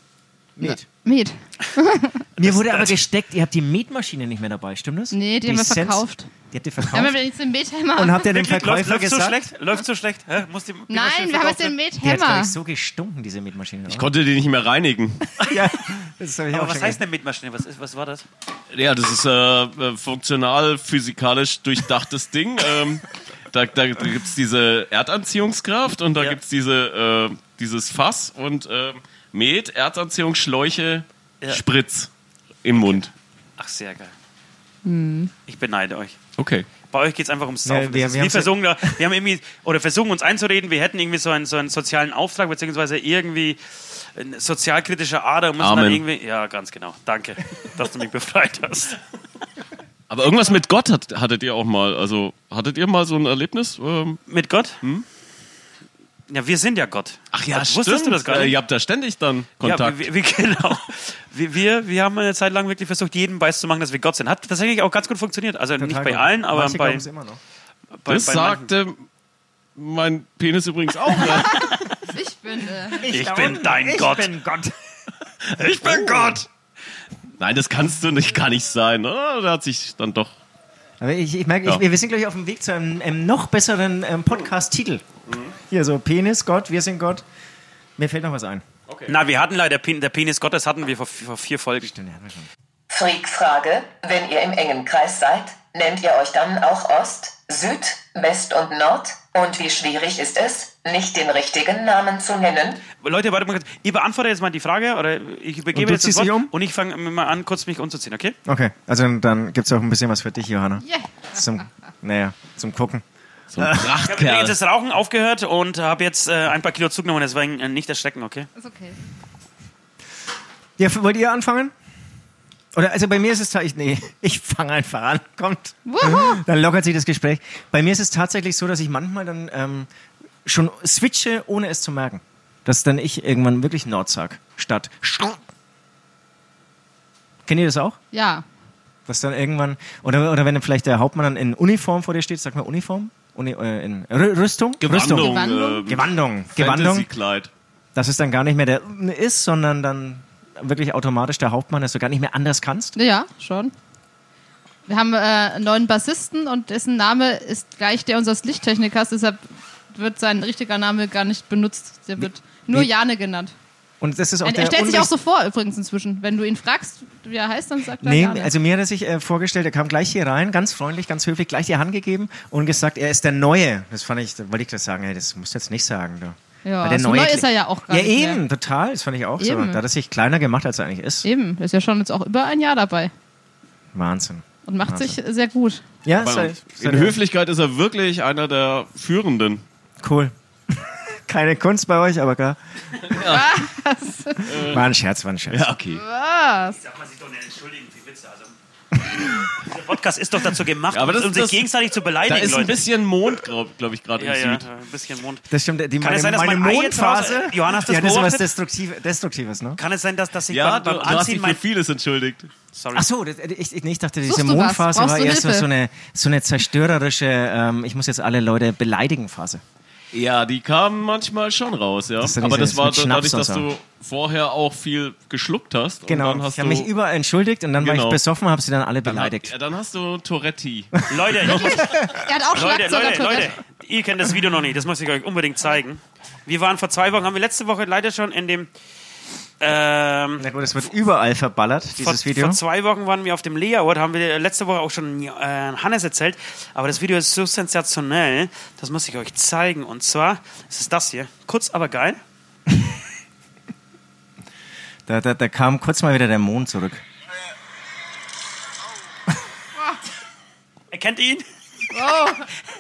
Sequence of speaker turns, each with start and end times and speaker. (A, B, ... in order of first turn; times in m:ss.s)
0:00.6-0:00.9 A
0:00.6-0:02.2 B
0:02.4-0:07.2 A
0:02.4-0:02.9 C
0:05.1-0:06.3 B
0:06.9-0:08.3 B
0:08.0-0:09.5 A
0:08.3-0:11.8 C
0:10.9-0:12.6 B
0:12.0-0:14.1 A
0:13.9-0:15.4 D
0:15.5-0:17.0 A
0:16.5-0:18.3 C
0:18.7-0:32.1 D
0:32.6-0:33.1 D
0:32.8-0:34.1 C
0:34.8-0:35.3 B
0:35.5-0:36.2 C
0:36.4-0:36.7 D
0:36.8-0:49.0 C
0:37.6-0:39.0 A
0:45.6-0:46.0 D
0:50.1-0:54.2 D
0:54.3-0:54.8 C
0:56.3-0:58.6 C
0:57.3-1:00.1 D
0:59.6-1:07.1 C
1:05.8-1:07.4 A
1:08.0-1:08.7 C
1:08.1-1:09.1 D
1:09.8-1:11.7 D
1:11.6-1:13.1 B
1:13.0-1:14.7 A
1:13.1-1:14.4 C
1:15.5-1:16.4 D
1:15.5-1:16.4 C
1:17.4-1:20.4 D
1:21.0-1:25.0 A
1:25.3-1:25.6 D
1:25.7-1:27.2 A
1:28.0-1:28.6 A
1:28.9-1:29.2 D
1:29.1-1:31.9 C
1:31.8-1:32.5 A
1:32.9-1:42.8 E
1:43.0-1:48.4 C
1:45.7-1:46.5 A
1:48.5-1:53.0 A
1:50.8-1:51.6 B
1:53.5-1:54.6 D
1:53.6-1:54.0 A
1:54.0-1:58.5 C
1:58.6-1:59.0 B
2:00.8-2:01.7 A
2:02.7-2:09.9 A
2:05.9-2:06.4 B
2:10.4-2:15.4 A
2:17.5-2:18.0 A
2:18.1-2:18.4 B
2:19.1-2:27.1 A
2:24.8-2:27.5 D
2:25.0-2:25.9 B
2:28.0-2:33.0 A
2:33.0-2:33.7 B
2:34.9-2:43.5 B
2:42.2-2:42.9 A
2:44.0-2:45.1 A
2:44.4-2:48.5 B
2:48.0-3:01.3 A
2:56.6-2:58.4 B
2:59.4-2:59.8 B
3:01.2-3:03.1 B
3:03.9-3:05.2 A
3:04.7-3:05.8 B
3:06.0-3:07.2 A
3:06.2-3:09.6 D
3:10.0-3:12.6 A
3:13.1-3:13.6 D
3:13.2-3:14.7 B
3:14.5-3:14.9 D
3:14.6-3:15.7 A
3:15.5-3:16.0 D
3:15.9-3:16.8 B
3:16.8-3:18.6 C
3:19.5-3:22.9 C
3:20.9-3:21.7 D
3:22.3-3:24.6 D
3:24.2-3:25.4 C
3:25.5-3:29.8 A
3:26.0-3:28.5 C
3:29.8-3:31.6 C
3:30.5-3:32.5 D
3:32.7-3:33.1 C
3:33.0-3:39.6 A
3:34.3-3:35.7 B
3:40.1-3:46.9 D
3:42.2-3:43.7 A
3:46.1-3:49.5 A
3:47.8-3:48.2 D
3:49.1-3:51.8 D
3:51.1-3:51.9 C
3:51.5-3:53.6 B
3:51.5-3:52.0 A
3:52.5-3:58.7 C
3:59.6-4:00.5 C
4:00.4-4:02.6 A
4:02.0-4:12.2 C
4:15.1-4:17.0 A
4:20.9-4:21.4 C
4:21.9-4:22.5 B